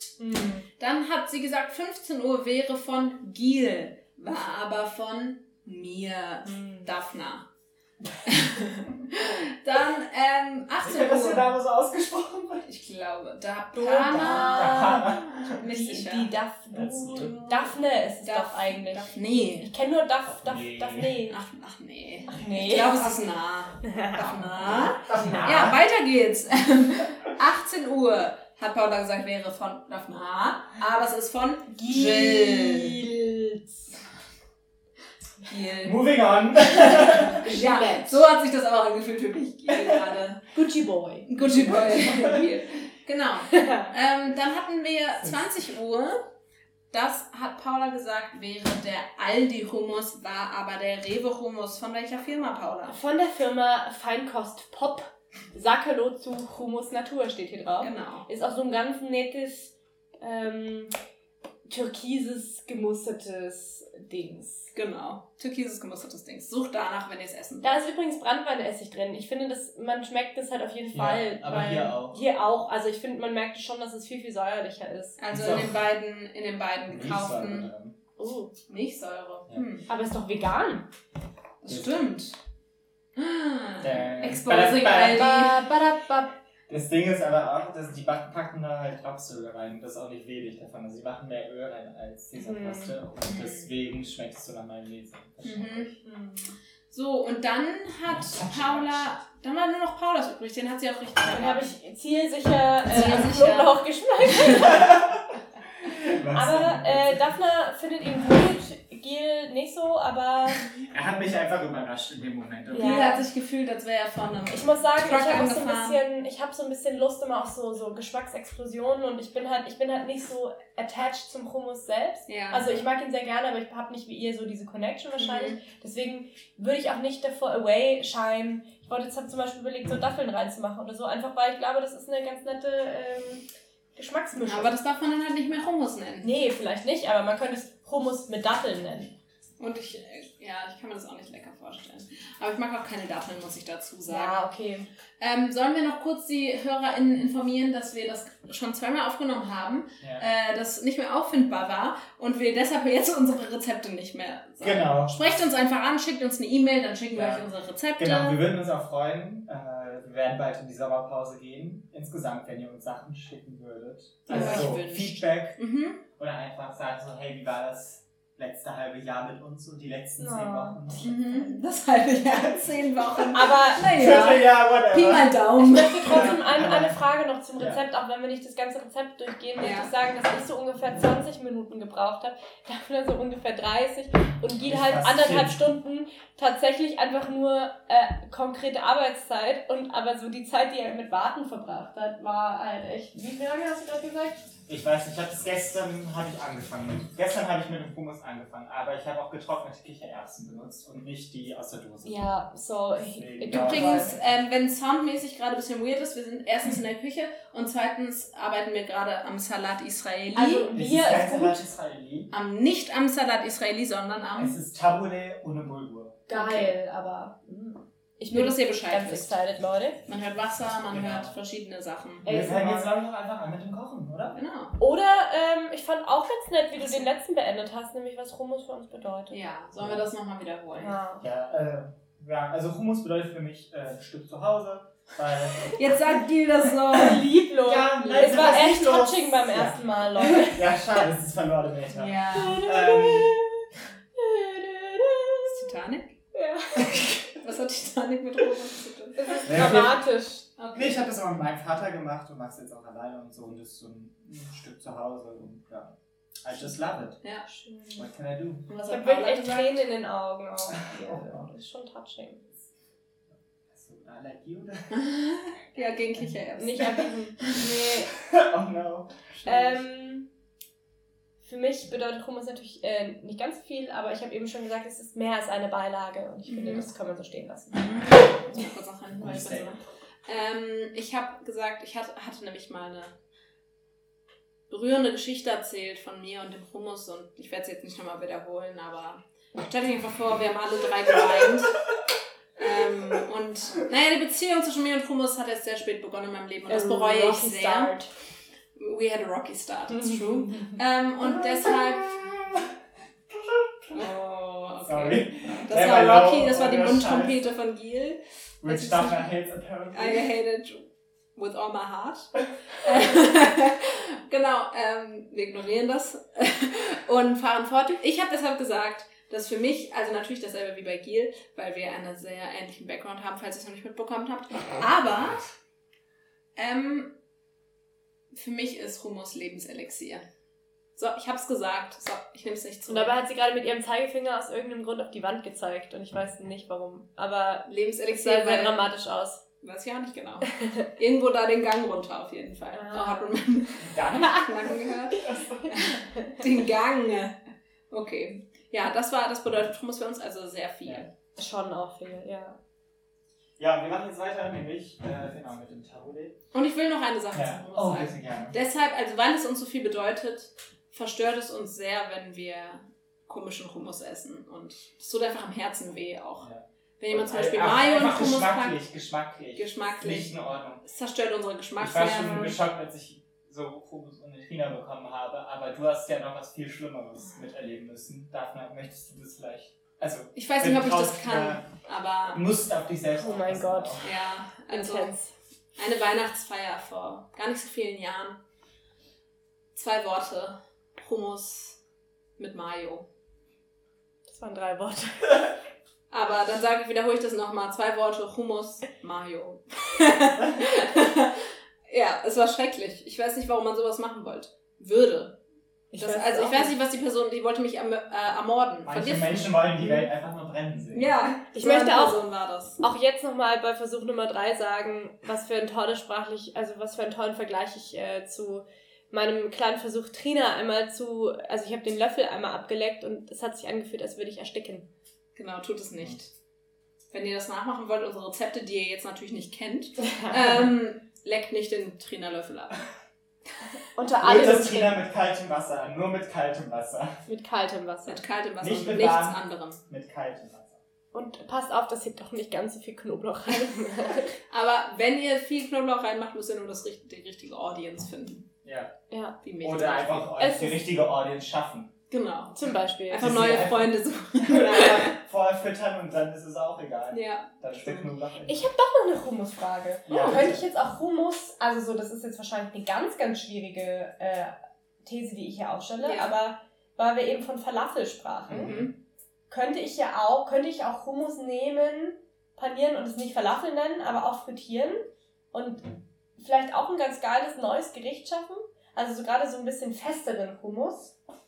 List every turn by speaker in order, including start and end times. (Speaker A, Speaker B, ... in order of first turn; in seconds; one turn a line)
Speaker A: 0.2-0.7
Speaker B: 0.8-7.5
Speaker A: 6.5-6.9
Speaker B: 8.3-11.5
Speaker C: 10.8-12.7
Speaker B: 12.7-16.3
Speaker A: 13.8-21.4
Speaker C: 14.1-15.6
Speaker C: 16.7-17.4
Speaker B: 17.1-17.7
Speaker B: 18.3-19.7
Speaker C: 20.4-21.2
Speaker B: 21.3-33.0
Speaker A: 22.3-23.1
Speaker A: 23.9-24.2
Speaker C: 24.2-25.8
Speaker A: 25.1-25.6
Speaker A: 31.8-33.8
Speaker B: 35.4-36.0
Speaker C: 35.8-37.5
Speaker B: 36.8-40.5
Speaker A: 37.0-38.2
Speaker C: 39.8-40.0
Speaker A: 40.5-42.4
Speaker B: 41.3-46.3
Speaker C: 41.7-42.4
Speaker A: 43.5-43.9
Speaker B: 46.9-53.0
Speaker A: 52.9-61.0
Speaker B: 57.8-58.3
Speaker A: 61.7-64.7
Speaker B: 64.7-67.8
Speaker A: 67.6-75.2
Speaker C: 70.9-72.2
Speaker B: 75.2-77.7
Speaker C: 75.3-75.8
Speaker C: 76.9-78.0
Speaker A: 78.2-78.5
Speaker B: 78.7-79.9
Speaker A: 79.9-80.9
Speaker B: 81.6-82.4
Speaker C: 81.7-82.0
Speaker B: 83.2-85.7
Speaker C: 83.8-85.3
Speaker A: 84.7-86.4
Speaker C: 86.7-96.0
Speaker A: 92.4-92.9
Speaker B: 93.3-93.7
Speaker B: 95.4-95.9
Speaker A: 96.0-96.5
Speaker B: 96.9-101.7
Speaker C: 98.1-99.2
Speaker A: 101.3-105.1
Speaker B: 102.9-104.7
Speaker C: 104.5-107.3
Speaker A: 106.3-110.7
Speaker C: 110.8-113.1
Speaker A: 112.7-113.2
Speaker B: 112.8-116.0
Speaker A: 114.5-134.8
Speaker B: 122.3-122.7
Speaker B: 125.2-125.6
Speaker B: 134.4-136.3
Speaker A: 136.2-139.2
Speaker B: 139.6-144.4
Speaker A: 144.1-144.9
Speaker B: 145.2-158.4
Speaker C: 154.6-155.2
Speaker C: 157.1-165.6
Speaker B: 164.3-166.0
Speaker A: 164.3-164.8
Speaker C: 166.1-171.0
Speaker A: 170.2-171.6
Speaker B: 171.0-176.4
Speaker C: 172.3-172.7
Speaker A: 173.3-174.4
Speaker C: 173.8-175.4
Speaker A: 175.6-194.4
Speaker C: 176.0-177.0
Speaker B: 179.6-179.9
Speaker C: 184.3-185.6
Speaker C: 194.7-202.3
Speaker A: 202.0-204.2
Speaker C: 203.0-204.3
Speaker B: 203.5-210.7
Speaker A: 210.3-211.6
Speaker C: 210.7-212.3
Speaker B: 212.3-214.6
Speaker C: 214.4-216.3
Speaker A: 216.3-220.0
Speaker B: 216.3-216.8
Speaker B: 218.3-219.4
Speaker B: 220.1-222.3
Speaker C: 220.9-221.3
Speaker C: 222.2-224.4
Speaker A: 222.2-222.9
Speaker B: 224.3-224.8
Speaker A: 224.8-229.4
Speaker B: 229.3-231.0
Speaker A: 230.8-231.2
Speaker C: 231.2-236.1
Speaker B: 235.8-237.3
Speaker A: 236.9-240.6
Speaker C: 237.7-243.4
Speaker B: 242.0-242.6
Speaker A: 242.2-245.7
Speaker B: 245.4-246.2
Speaker A: 246.3-247.1
Speaker C: 246.8-247.1
Speaker B: 247.3-249.4
Speaker A: 249.2-250.5
Speaker C: 249.5-250.0
Speaker B: 250.6-250.9
Speaker C: 250.7-257.2
Speaker A: 257.5-258.1
Speaker C: 258.0-258.7
Speaker A: 258.7-262.4
Speaker B: 258.7-259.9
Speaker C: 260.7-261.4
Speaker C: 263.7-264.9
Speaker B: 264.9-267.1
Speaker A: 266.6-268.1
Speaker C: 267.5-269.5
Speaker A: 269.4-270.3
Speaker A: 271.4-278.6
Speaker B: 276.5-276.9
Speaker B: 277.7-283.1
Speaker C: 279.1-279.7
Speaker B: 284.7-291.8
Speaker B: 292.6-298.0
Speaker A: 296.7-298.1
Speaker B: 298.8-302.3
Speaker C: 302.2-302.7
Speaker C: 303.3-304.1
Speaker B: 303.9-309.2
Speaker C: 304.8-307.4
Speaker C: 308.6-310.3
Speaker B: 309.9-325.4
Speaker B: 326.6-327.1
Speaker B: 328.3-330.2
Speaker B: 331.0-333.1
Speaker A: 332.9-339.4
Speaker B: 337.7-338.8
Speaker B: 339.6-347.4
Speaker A: 342.7-343.4
Speaker C: 343.8-345.5
Speaker B: 347.9-351.1
Speaker A: 351.4-352.6
Speaker C: 353.6-356.4
Speaker B: 356.5-366.5
Speaker C: 357.3-358.6
Speaker C: 366.4-370.8
Speaker B: 367.0-368.8
Speaker B: 369.6-372.6
Speaker C: 371.8-381.6
Speaker B: 380.4-382.4
Speaker C: 382.3-384.0
Speaker A: 383.1-384.0
Speaker B: 384.0-385.1
Speaker A: 384.7-385.3
Speaker B: 385.8-388.4
Speaker B: 389.8-391.8
Speaker B: 392.4-393.1
Speaker A: 394.3-395.5
Speaker B: 396.1-405.4
Speaker A: 405.9-406.7
Speaker B: 405.9-410.1
Speaker C: 408.9-411.1
Speaker B: 410.9-412.8
Speaker A: 411.6-412.2
Speaker A: 412.8-424.9
Speaker B: 425.4-426.3
Speaker B: 427.1-432.8
Speaker A: 433.9-435.0
Speaker C: 434.2-437.2
Speaker A: 437.3-438.2
Speaker B: 438.1-439.8
Speaker C: 438.6-440.8
Speaker A: 441.1-444.4
Speaker B: 444.5-448.5
Speaker C: 448.6-448.9
Speaker A: 449.1-449.4
Speaker B: 449.4-450.3
Speaker C: 449.6-451.9
Speaker A: 450.4-450.8
Speaker B: 452.1-455.2
Speaker A: 452.6-453.6
Speaker C: 453.2-458.6
Speaker B: 457.1-458.1
Speaker A: 458.5-468.8
Speaker C: 460.1-460.6
Speaker B: 466.0-466.4
Speaker C: 468.5-468.9
Speaker B: 468.6-468.9
Speaker A: 469.5-481.2